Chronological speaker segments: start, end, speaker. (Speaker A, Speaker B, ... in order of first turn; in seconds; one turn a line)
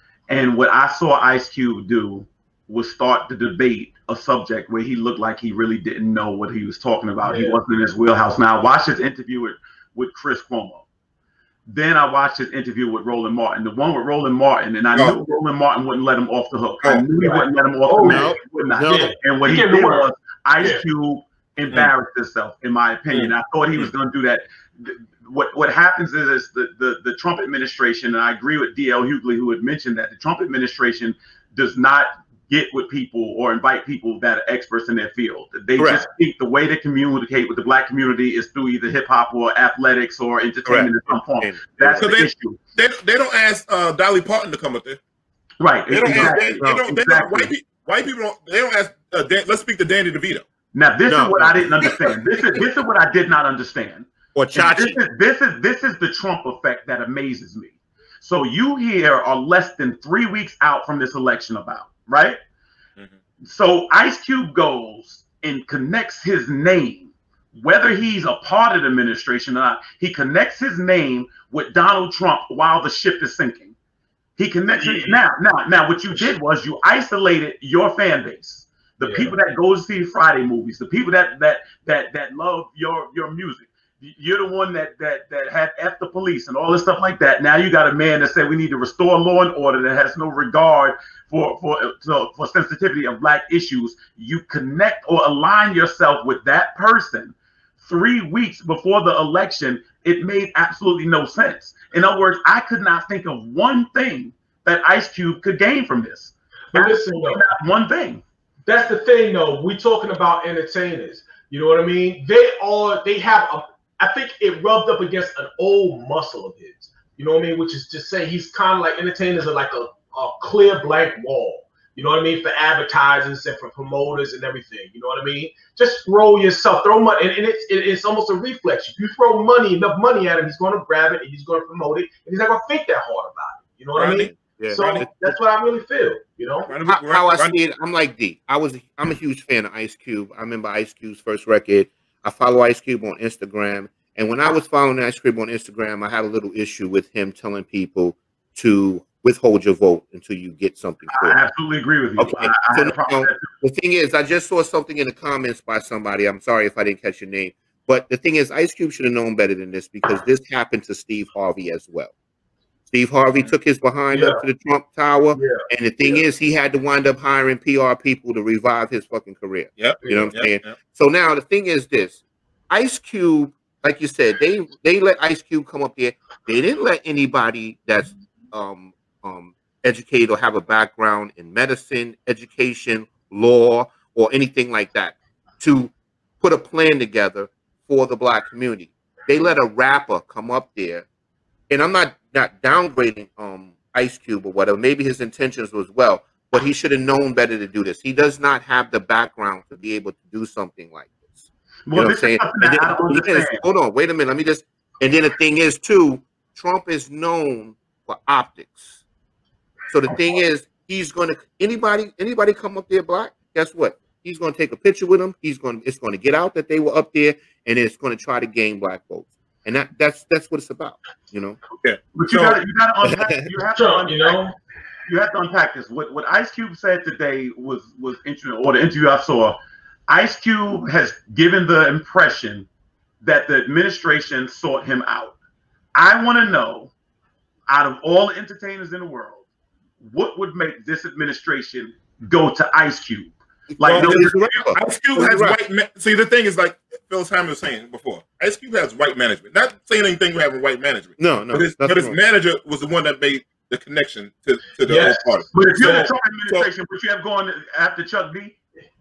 Speaker A: 0.3-10.8
Speaker B: 7.2-7.6
Speaker A: 11.7-42.6
Speaker B: 17.2-18.3
Speaker C: 18.0-19.1
Speaker B: 18.9-20.1
Speaker D: 23.1-23.9
Speaker C: 35.8-36.0
Speaker C: 40.6-42.1
Speaker D: 41.9-45.0
Speaker A: 45.6-47.5
Speaker D: 45.9-50.5
Speaker C: 46.1-46.8
Speaker A: 50.7-62.4
Speaker C: 51.1-52.1
Speaker C: 54.4-55.0
Speaker A: 63.4-73.8
Speaker A: 74.4-108.2
Speaker B: 74.7-75.2
Speaker B: 79.0-79.4
Speaker B: 106.7-107.4
Speaker B: 108.7-136.7
Speaker D: 133.9-135.3
Speaker C: 134.3-135.1
Speaker D: 136.7-137.6
Speaker C: 136.9-151.4
Speaker A: 151.1-153.5
Speaker C: 152.2-162.1
Speaker C: 162.9-191.1
Speaker B: 164.1-164.4
Speaker B: 165.3-166.2
Speaker D: 169.8-170.8
Speaker B: 170.0-170.3
Speaker C: 191.7-209.0
Speaker A: 201.9-203.6
Speaker C: 209.9-221.6
Speaker D: 221.8-222.6
Speaker A: 222.2-224.4
Speaker C: 223.0-223.4
Speaker B: 223.8-224.6
Speaker A: 225.1-229.6
Speaker A: 230.1-232.7
Speaker A: 233.2-235.4
Speaker A: 235.9-236.9
Speaker A: 237.7-239.4
Speaker A: 240.0-244.5
Speaker C: 243.7-245.6
Speaker D: 243.8-256.7
Speaker C: 251.2-252.2
Speaker B: 254.8-256.1
Speaker A: 255.5-258.6